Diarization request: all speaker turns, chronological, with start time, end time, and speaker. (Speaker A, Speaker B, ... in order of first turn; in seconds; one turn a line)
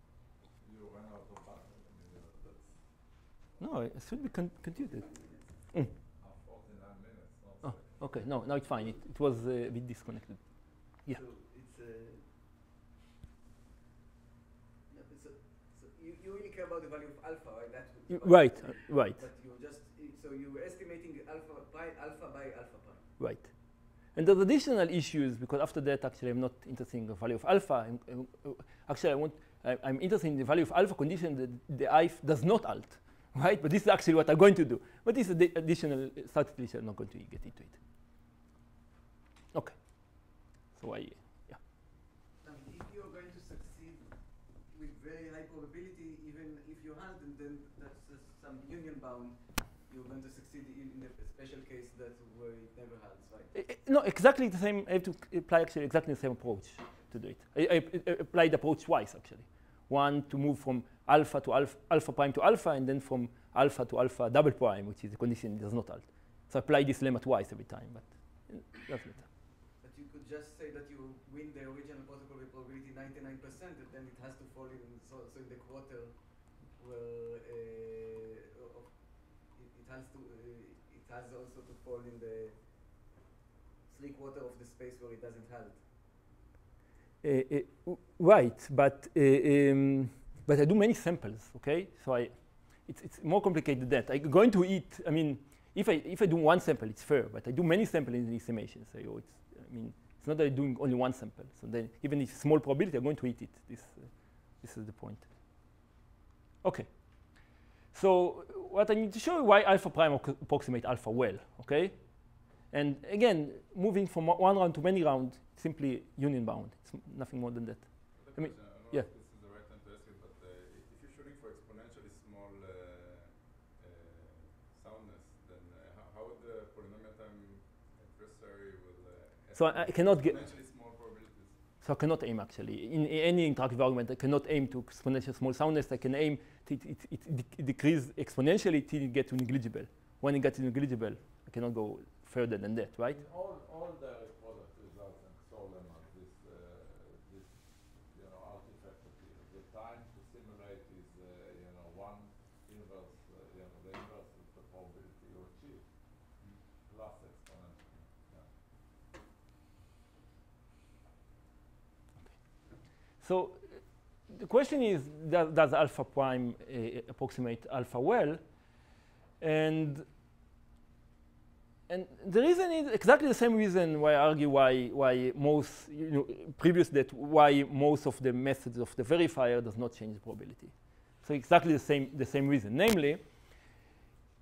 Speaker A: 0.6-3.2
Speaker B: 3.6-5.9
Speaker C: 4.7-5.7
Speaker A: 6.2-8.1
Speaker B: 7.6-11.2
Speaker C: 11.1-12.3
Speaker C: 14.9-23.1
Speaker B: 18.1-19.2
Speaker B: 23.2-37.8
Speaker B: 39.5-41.6
Speaker C: 42.4-53.5
Speaker B: 53.5-69.3
Speaker C: 69.8-82.5
Speaker C: 83.9-85.8
Speaker B: 87.2-105.3
Speaker B: 106.6-107.4
Speaker B: 107.9-119.1
Speaker D: 118.1-131.6
Speaker B: 129.5-130.4
Speaker B: 131.8-143.2
Speaker A: 143.1-156.3
Speaker A: 156.8-158.5
Speaker B: 162.3-162.6
Speaker B: 163.2-168.4
Speaker B: 169.4-170.1
Speaker B: 171.9-183.2